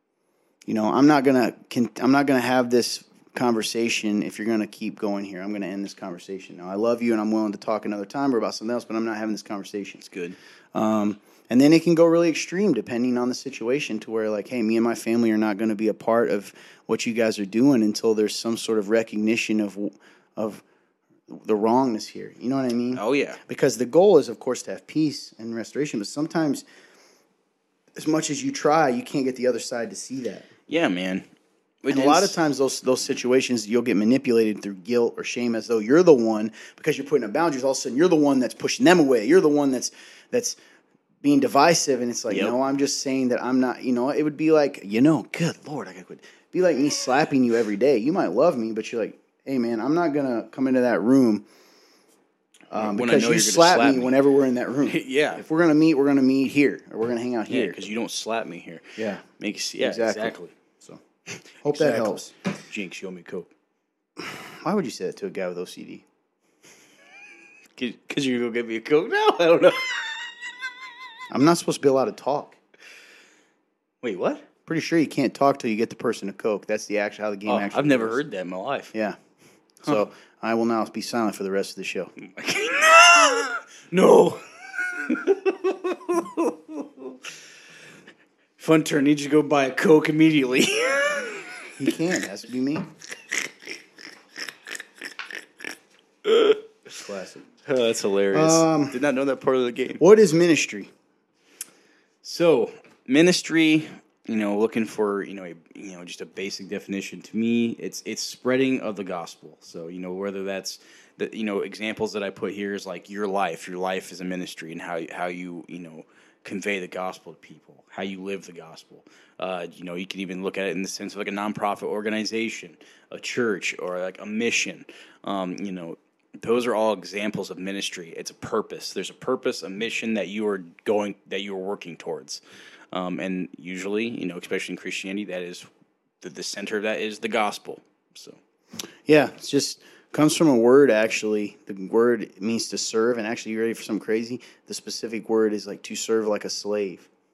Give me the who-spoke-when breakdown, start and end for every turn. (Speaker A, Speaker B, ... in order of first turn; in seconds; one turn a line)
Speaker A: 0.7-10.0
Speaker B: 10.0-10.4
Speaker A: 10.7-20.6
Speaker A: 21.3-26.6
Speaker B: 22.9-23.4
Speaker A: 27.9-30.5
Speaker B: 30.7-31.3
Speaker B: 31.8-32.4
Speaker A: 31.9-40.6
Speaker A: 41.2-51.5
Speaker A: 52.7-57.9
Speaker B: 52.7-54.2
Speaker B: 54.9-55.4
Speaker B: 57.5-60.5
Speaker A: 59.0-59.2
Speaker A: 59.8-61.0
Speaker B: 61.3-62.1
Speaker A: 61.6-62.4
Speaker B: 62.7-63.5
Speaker A: 64.2-66.0
Speaker B: 67.8-70.3
Speaker A: 71.3-72.6
Speaker B: 74.0-74.5
Speaker A: 74.7-78.2
Speaker B: 77.5-78.9
Speaker A: 79.8-82.2
Speaker B: 82.2-87.2
Speaker B: 88.6-91.7
Speaker A: 91.8-92.9
Speaker B: 96.2-96.6
Speaker A: 97.0-97.5
Speaker B: 97.7-100.0
Speaker A: 98.3-99.0
Speaker A: 100.0-100.9
Speaker B: 102.2-132.4
Speaker B: 132.9-135.7
Speaker B: 136.2-138.4
Speaker A: 139.1-147.1